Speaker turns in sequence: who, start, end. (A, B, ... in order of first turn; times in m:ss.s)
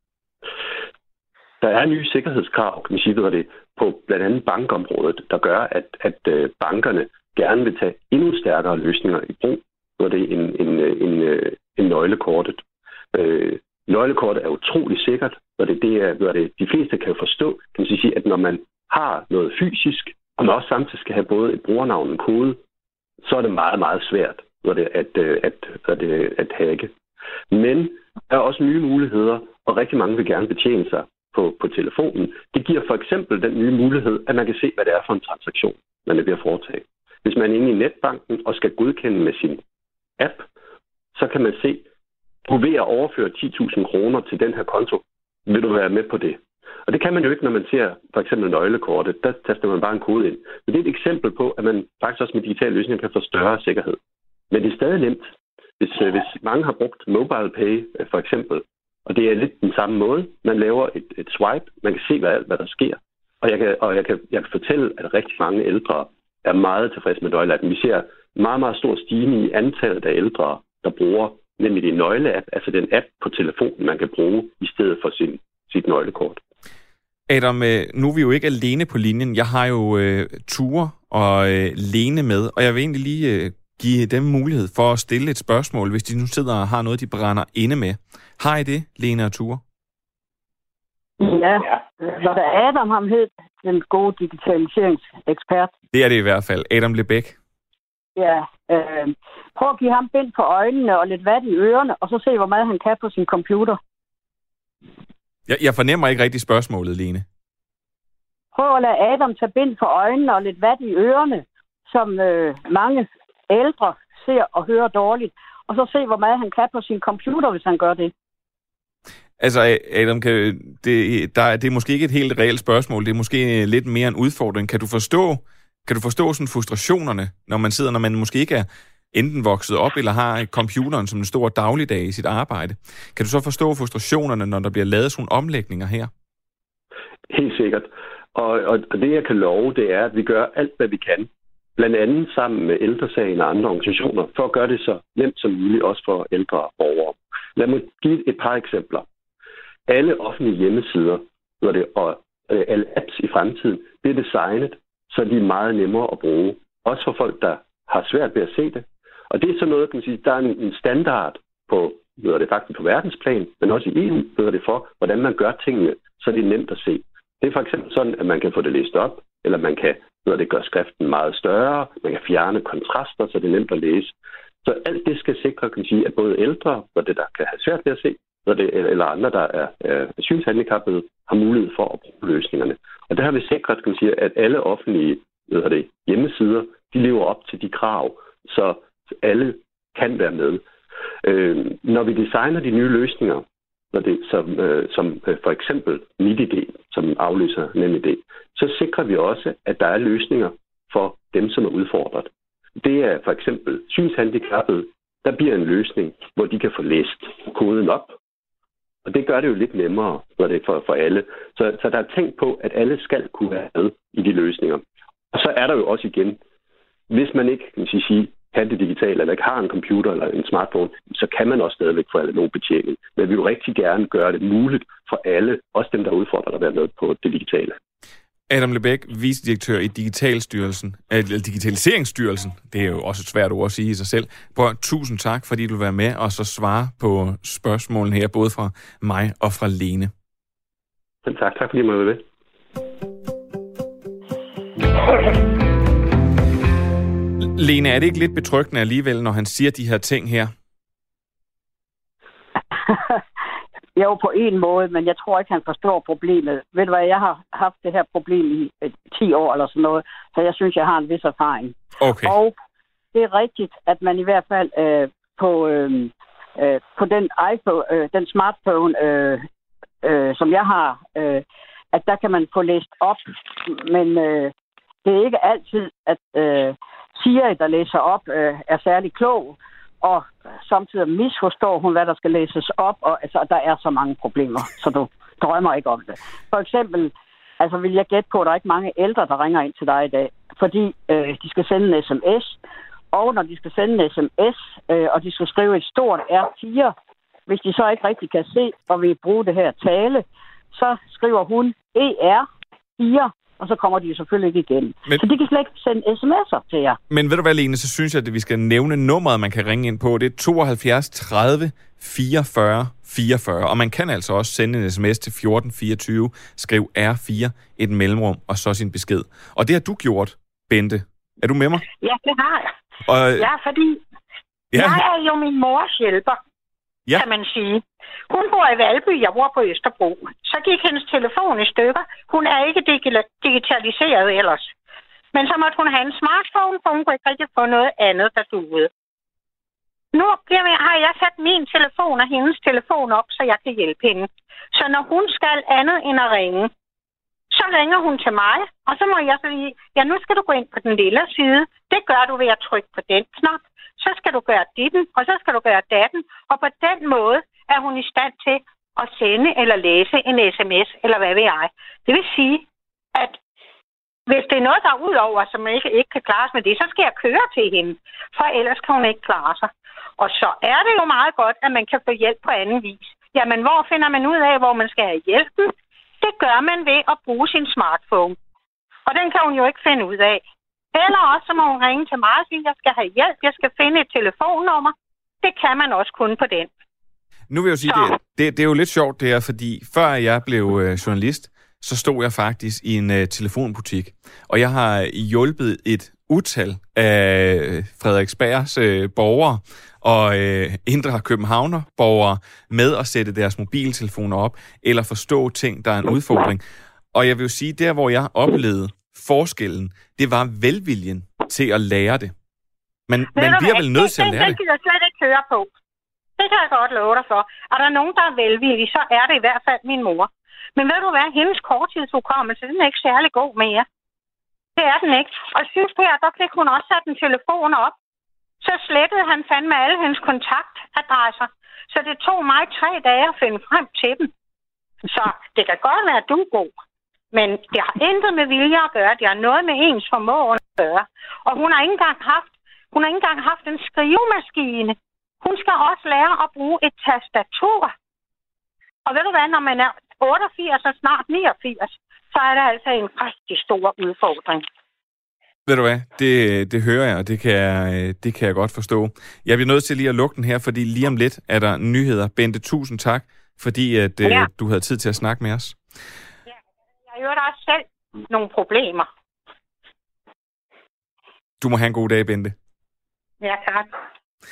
0:01.6-0:22.6 A
0:23.2-0:26.9 A
0:27.5-0:39.6 A
0:40.2-0:40.5 A
0:41.1-0:41.9 A
0:42.5-0:54.0 A
0:54.5-1:16.4 A
1:17.3-1:29.6 B
1:31.2-1:35.7 C
1:35.9-1:37.4 B
1:38.2-1:43.8 C
1:45.5-1:47.2 B
1:48.5-1:58.1 C
1:59.4-2:16.1 B
2:17.3-2:29.1 A
2:29.9-3:10.6 A
3:11.2-3:28.2 A
3:29.0-3:36.4 A
3:37.1-3:47.8 A
3:48.5-4:00.1 B
4:01.2-4:02.2 A
4:07.6-4:10.5 B
4:12.8-4:13.2 C
4:14.0-4:22.6 C
4:22.0-4:22.4 B
4:23.1-4:29.4 C
4:30.0-4:34.5 C
4:35.0-4:52.6 C
4:53.1-4:56.9 C
4:57.5-5:02.5 C
5:03.0-5:07.0 C
5:07.1-5:21.8 B
5:22.0-5:22.7 D
5:23.1-5:23.5 B
5:23.4-5:24.0 D
5:24.7-5:26.4 D
5:24.7-5:25.0 B
5:27.1-5:34.7 D
5:35.3-5:38.9 D
5:40.1-5:46.7 D
5:47.5-6:03.4 D
6:04.3-6:18.4 D
6:19.1-6:20.4 D
6:20.9-6:26.7 D
6:27.5-6:46.6 B
6:27.9-6:28.2 D
6:47.1-6:52.3 B
6:53.1-6:54.6 B
6:53.3-6:55.7 D
6:56.4-7:03.9 D
7:04.8-7:08.0 D
7:08.6-7:14.3 D
7:15.1-7:16.7 D
7:17.3-7:27.9 D
7:29.0-7:34.7 D
7:35.7-7:45.8 B
7:47.1-7:49.1 D
7:51.6-7:52.5 B
7:53.4-7:53.9 D